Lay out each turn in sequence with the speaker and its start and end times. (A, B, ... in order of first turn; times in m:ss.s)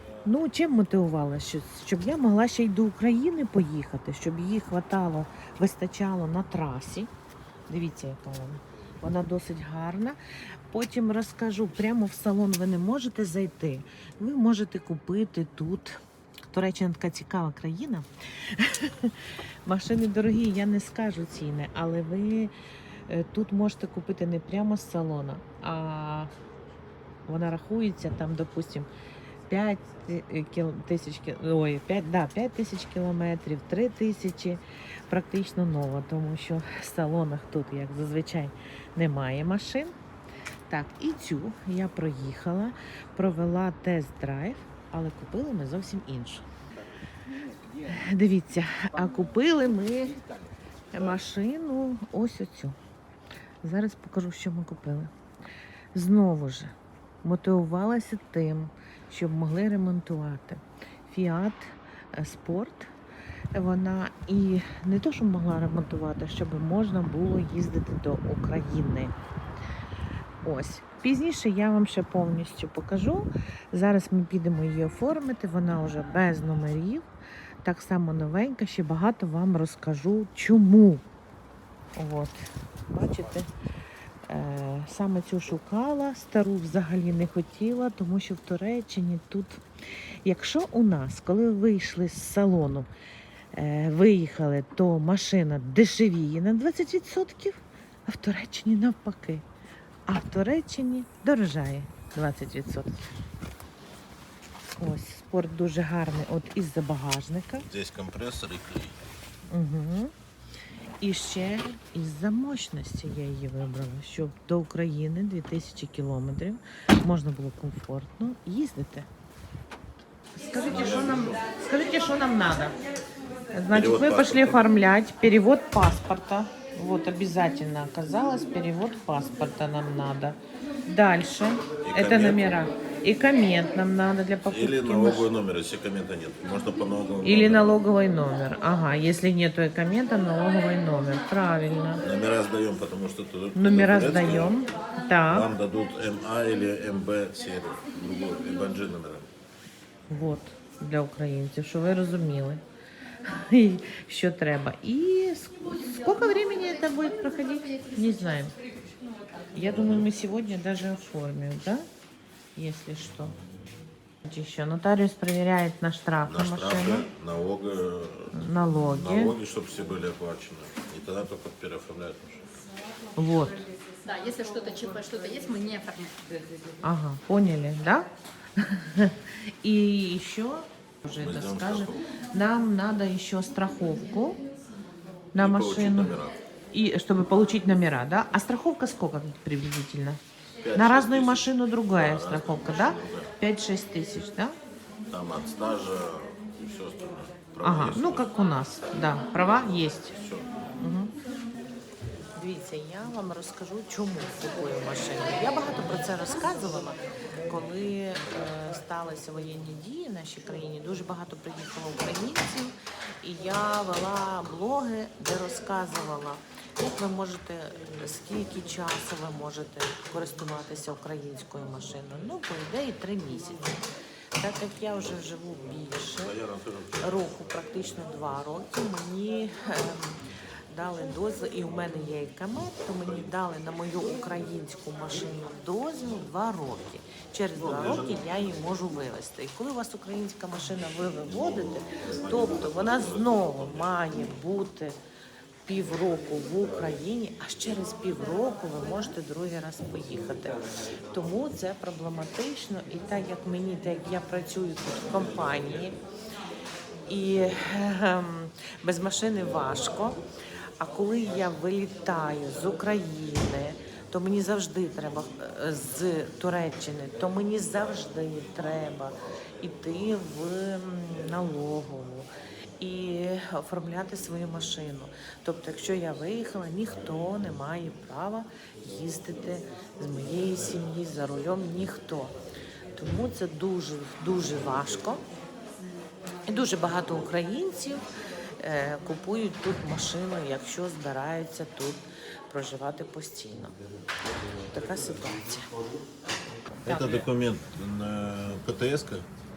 0:00.2-0:07.1 A
0:07.7-0:10.2 A
0:10.7-0:16.0 A
0:16.5-0:22.5 A
0:23.1-0:26.3 A
0:27.2-0:28.9 A
0:29.5-0:39.9 A
0:40.7-0:46.4 A
0:47.8-0:50.2 A
0:50.9-0:52.8 A
0:53.6-0:55.1 A
0:55.9-1:02.9 A
1:03.5-1:09.1 A
1:10.4-1:17.1 A
1:17.6-1:21.0 A
1:22.0-1:23.5 A
1:24.3-1:29.6 A
1:30.2-1:32.9 A
1:33.5-1:39.4 A
1:40.1-1:43.2 A
1:44.8-1:47.7 A
1:47.7-1:48.9 B
1:49.5-1:50.1 A
1:51.0-1:59.1 A
2:00.4-2:02.7 A
2:00.7-2:01.3 B
2:03.5-2:15.3 A
2:03.7-2:04.6 B
2:11.8-2:12.6 B
2:14.5-2:17.8 B
2:17.2-2:22.0 A
2:22.0-2:24.6 B
2:23.5-2:25.5 A
2:25.3-2:29.3 B
2:30.1-2:32.6 A
2:33.2-2:38.5 A
2:39.5-2:41.8 A
2:39.7-2:40.1 B
2:42.6-2:43.4 A
2:44.2-2:47.1 A
2:46.2-2:52.5 B
2:48.3-2:49.4 A
2:53.2-2:53.6 A
2:54.0-2:56.3 C
2:56.8-3:04.4 A
3:01.2-3:02.0 B
3:05.3-3:06.2 A
3:05.4-3:06.4 B
3:06.7-3:10.2 A
3:10.6-3:13.3 B
3:10.7-3:14.5 A
3:15.1-3:18.3 B
3:17.6-3:20.2 A
3:20.1-3:20.5 B
3:20.8-3:21.1 A
3:22.4-3:43.8 A
3:44.4-3:46.4 A
3:46.2-3:47.2 B
3:47.0-4:05.0 A
3:57.6-3:58.4 B
4:01.7-4:03.9 B
4:05.6-4:10.6 A
4:11.1-4:16.0 A
4:17.1-4:20.2 A
4:20.8-4:42.4 A
4:43.0-4:45.2 A
4:46.5-4:48.0 A
4:48.6-4:53.8 A
4:54.7-4:55.7 A
4:56.8-4:57.3 A
4:56.8-4:59.3 B